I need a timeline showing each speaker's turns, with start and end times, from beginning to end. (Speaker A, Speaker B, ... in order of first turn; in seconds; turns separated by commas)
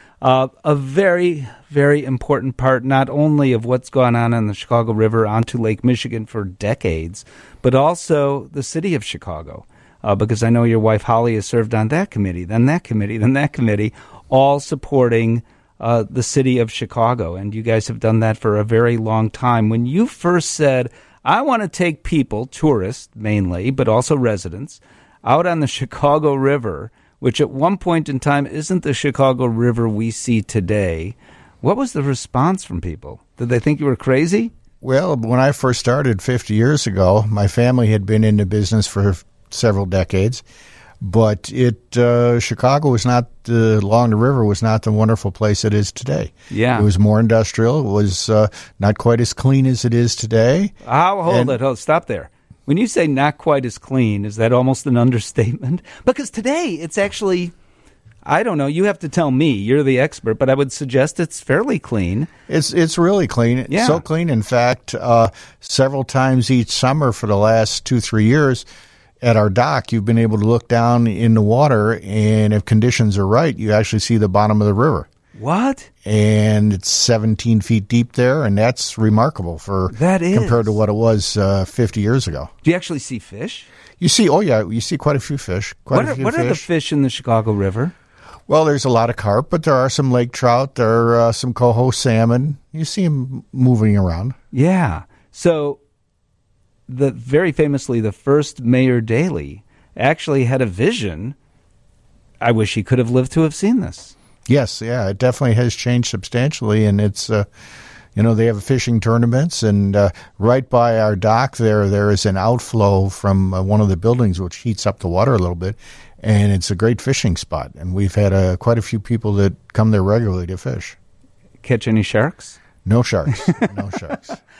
Speaker A: 0.2-34.5, Speaker B: 34.8-40.4, Speaker B: 41.0-50.7, Speaker A: 46.5-46.9, Speaker A: 50.8-57.5, Speaker B: 51.3-51.6, Speaker A: 58.2-62.3, Speaker B: 62.5-68.6, Speaker A: 63.7-64.0, Speaker B: 69.2-75.1, Speaker A: 75.3-75.9, Speaker B: 76.0-82.5, Speaker A: 79.9-80.8, Speaker A: 82.6-83.7, Speaker B: 84.0-86.7, Speaker A: 85.9-87.9, Speaker B: 88.5-94.3, Speaker A: 94.5-95.8, Speaker A: 96.9-101.3, Speaker A: 102.4-104.1, Speaker B: 104.5-107.5, Speaker B: 108.1-121.0, Speaker A: 121.6-122.6, Speaker B: 122.8-124.4, Speaker A: 123.4-123.7